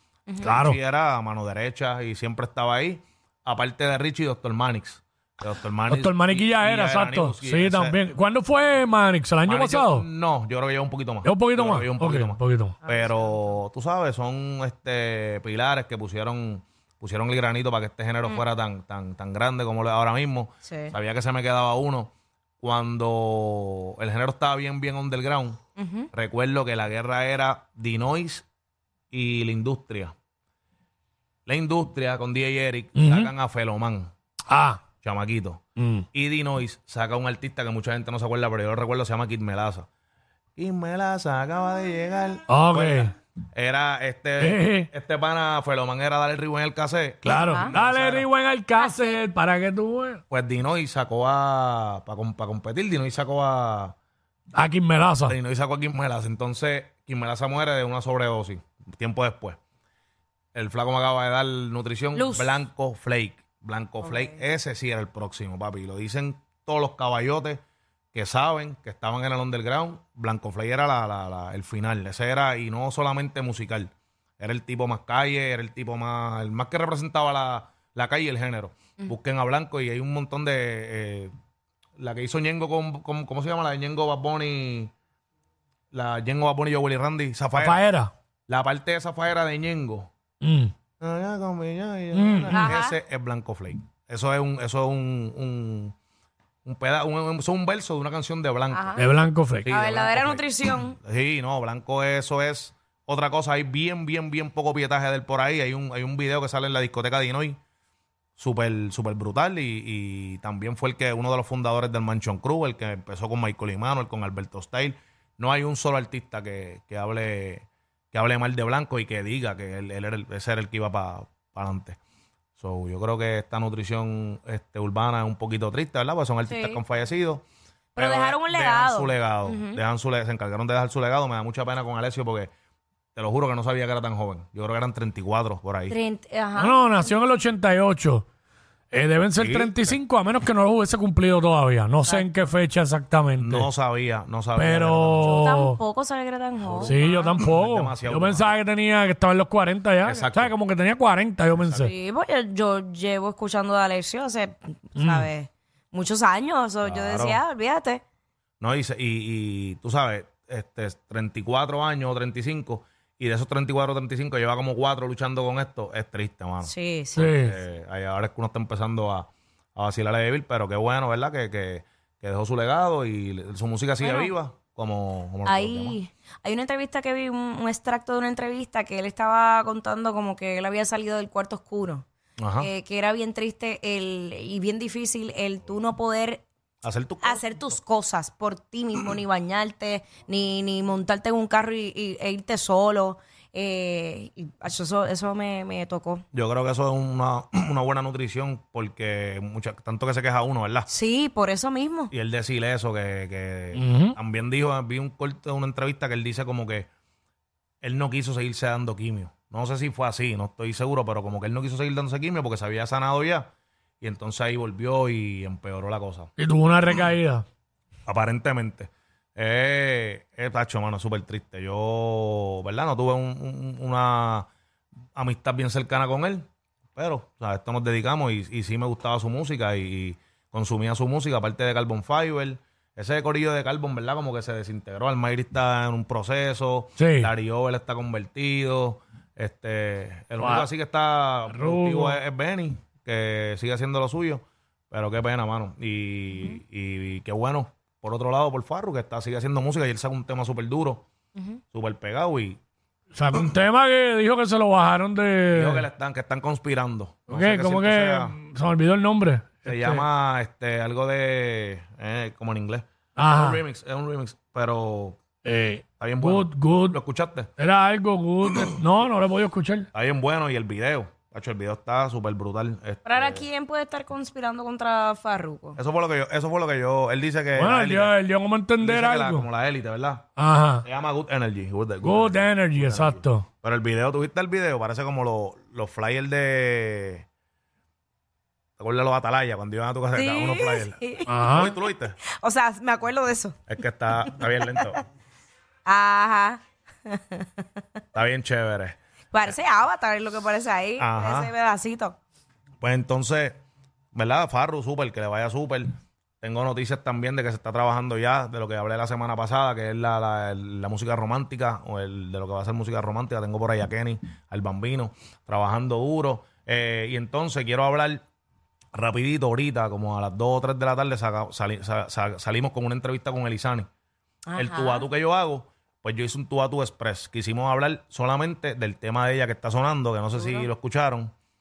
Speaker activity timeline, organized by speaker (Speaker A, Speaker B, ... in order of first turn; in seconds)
Speaker A: 0.4-8.0, 9.4-25.6, 26.1-28.4, 29.1-30.1, 31.5-34.1, 35.0-35.6, 36.1-39.9, 40.6-48.3, 50.3-53.9, 55.3-59.6, 60.5-67.6, 68.1-81.3, 82.0-84.9, 85.9-87.8, 88.5-90.1, 91.0-95.9, 96.6-99.0, 99.6-107.6, 108.4-122.0, 122.6-127.4, 128.0-132.5, 133.1-136.0, 139.3-140.0, 143.4-145.6, 146.6-148.5, 150.0-150.5, 151.5-151.9, 156.8-157.4, 158.6-166.7, 167.3-176.0, 182.4-182.7, 186.8-187.7, 196.3-200.9, 202.1-206.9, 207.8-213.5, 214.0-216.3, 218.1-224.5, 225.1-226.4, 226.9-251.0, 251.7-252.6, 255.5-258.3, 259.6-265.2, 266.0-267.5, 269.9-273.4, 275.8-278.1, 278.8-280.2, 280.8-287.2, 288.8-292.2, 293.7-295.0, 298.1-299.0, 301.0-301.5, 302.8-303.6, 304.1-318.2, 318.9-323.9, 324.6-331.3
Speaker B: 0.4-0.8, 5.9-10.0, 11.2-12.8, 33.0-33.3, 34.5-34.9, 35.8-36.0, 42.5-43.1, 44.4-44.9, 47.2-50.2, 54.5-55.4, 87.5-88.1, 90.4-90.7, 92.1-92.8, 99.0-99.7, 136.6-138.2, 138.9-143.7, 144.6-145.8, 146.8-151.9, 155.0-155.3, 167.2-167.5, 203.7-204.2, 216.4-217.4, 237.0-237.3, 240.4-240.7, 241.5-242.2, 253.1-255.8, 257.3-260.0, 263.2-263.6, 265.4-267.0, 267.6-269.9, 277.6-279.5, 280.4-280.8, 282.0-283.4, 291.3-291.7
Speaker C: 12.8-13.6, 20.6-20.9, 25.8-26.1, 47.4-47.7, 48.8-49.2, 62.1-62.6, 64.0-64.4, 92.5-93.0, 98.7-99.0, 99.7-101.0, 126.4-126.8, 128.0-129.8, 135.9-137.2, 142.0-142.4, 145.2-147.2, 151.8-158.0, 166.6-167.3, 174.0-174.3, 175.4-182.0, 182.6-186.4, 187.2-196.2, 200.9-202.1, 246.3-246.6, 273.0-275.8, 290.1-291.7, 292.2-293.6, 294.2-295.0, 295.9-297.8, 299.3-302.2, 324.5-325.1, 330.3-330.7